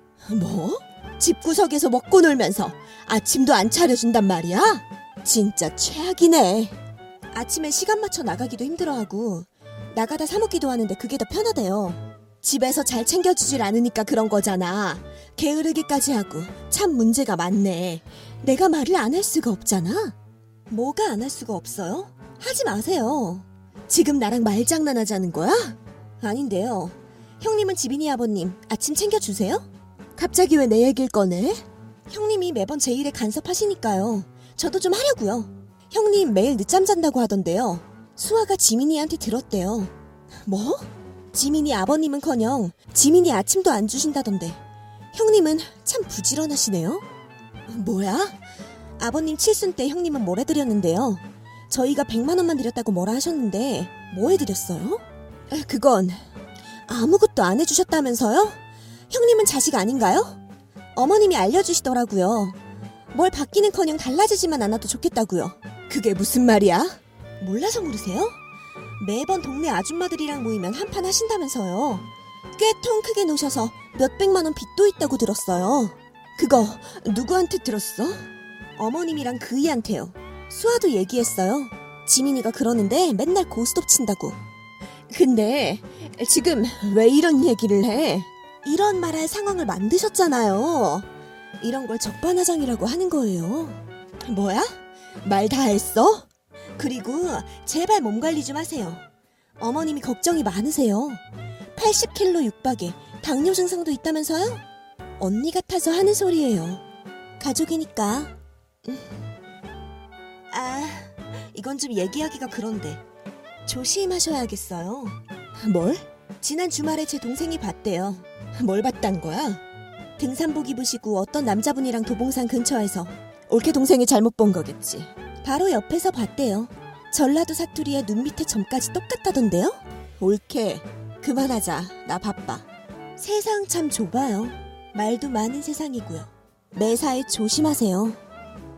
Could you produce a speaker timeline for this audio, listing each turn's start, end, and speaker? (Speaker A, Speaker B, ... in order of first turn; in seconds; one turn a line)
Speaker A: 0.2-6.8
Speaker A: 7.3-20.1
Speaker A: 20.7-39.9
Speaker A: 40.4-44.6
Speaker A: 45.1-47.0
Speaker A: 47.7-48.4
Speaker A: 49.0-56.2
Speaker A: 56.9-60.4
Speaker A: 60.9-62.6
Speaker A: 63.1-68.4
Speaker A: 69.0-84.4
Speaker A: 85.1-91.1
Speaker A: 91.6-99.0
Speaker A: 99.6-101.2
Speaker A: 101.7-104.6
Speaker A: 105.2-106.8
Speaker A: 107.4-109.1
Speaker A: 110.5-113.0
Speaker A: 113.6-119.6
Speaker A: 120.2-138.2